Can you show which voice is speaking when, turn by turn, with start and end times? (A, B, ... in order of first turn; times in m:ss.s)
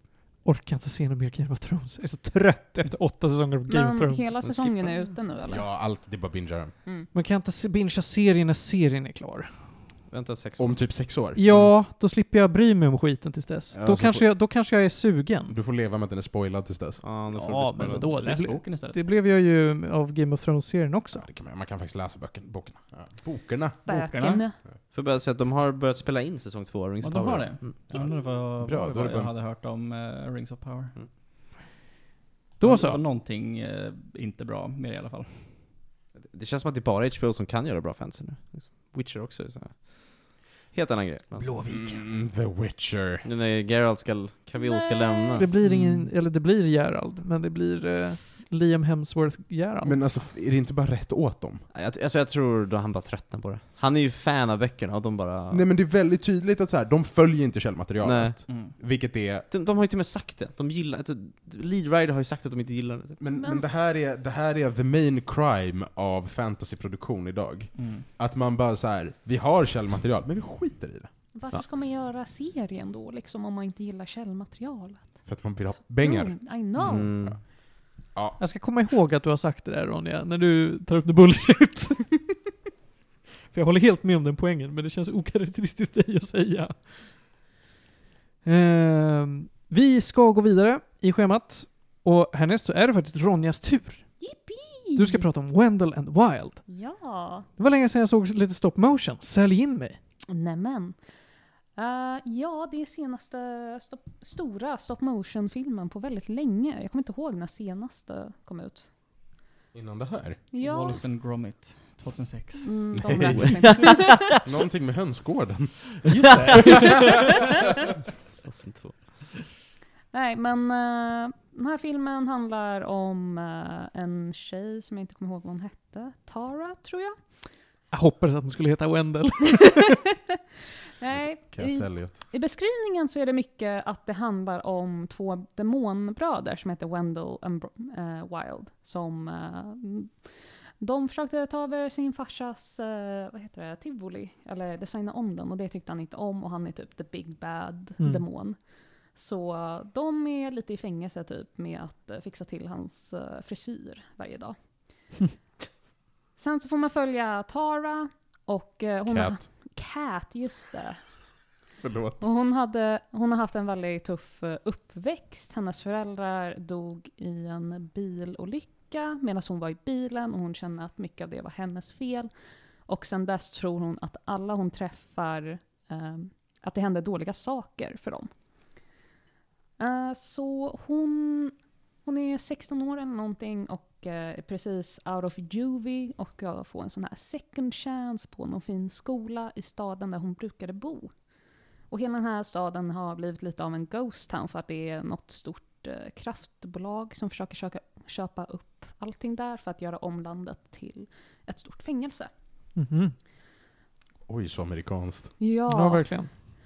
0:00.4-0:04.4 A
0:03.7-0:05.7 B
0:04.4-0:05.0 C
0:05.5-0:06.7 D
0:07.1-0:09.6 A
0:10.1-0:11.7 C
0:10.6-0:11.4 D
0:11.3-0:15.5 A
0:13.7-0:14.3 D
0:15.5-0:17.0 D
0:17.0-0:18.2 C
0:17.3-0:21.3 A
0:18.1-0:19.0 E
0:21.1-0:23.8 D
0:23.8-0:24.6 B
0:23.9-0:24.4 E
0:24.9-0:27.8 C
0:27.0-0:31.0 E
0:27.9-0:29.3 D
0:32.6-0:33.0 A
0:32.6-0:35.6 E
0:36.2-0:41.5 C
0:41.4-0:42.0 A
0:41.6-0:43.3 D
0:43.2-0:45.5 C
0:44.6-0:45.4 B
0:45.4-0:50.2 A
0:45.6-0:46.1 E
0:49.8-0:51.6 D
0:51.7-0:55.6 C
0:55.5-0:59.5 D
0:58.0-0:58.4 C
0:58.5-0:58.8 E
0:59.5-1:03.2 C
1:03.2-1:11.1 D
1:03.4-1:03.6 B
1:07.8-1:08.0 E
1:11.3-1:17.2 B
1:15.2-1:16.4 D
1:16.8-1:17.0 E
1:16.8-1:17.4 C
1:17.1-1:18.4 D
1:18.4-1:22.3 A
1:23.5-1:26.9 A
1:28.4-1:34.2 A
1:34.2-1:35.2 B
1:34.9-1:36.7 A
1:36.7-1:37.5 B
1:37.6-1:40.0 A
1:40.3-1:41.0 B
1:41.8-1:48.9 B
1:49.7-1:50.4 D
1:50.5-1:51.0 B
1:50.6-1:52.7 E
1:52.6-1:54.4 B
1:52.9-1:56.9 D
1:53.3-1:54.0 C
1:56.1-1:57.3 E
1:58.4-1:59.3 C
2:00.1-2:07.3 B
2:07.9-2:10.0 A
2:11.0-2:35.2 B
2:11.1-2:12.2 D
2:28.0-2:28.2 A
2:36.4-2:41.3 B
2:39.1-2:39.5 D
2:41.8-2:42.3 D
2:42.2-2:52.3 B
2:52.8-2:58.3 B
2:59.8-3:11.1 B
3:11.9-3:22.3 B
3:22.8-3:23.1 A
3:24.3-3:25.3 D
3:25.4-3:26.2 B
3:25.7-3:26.3 A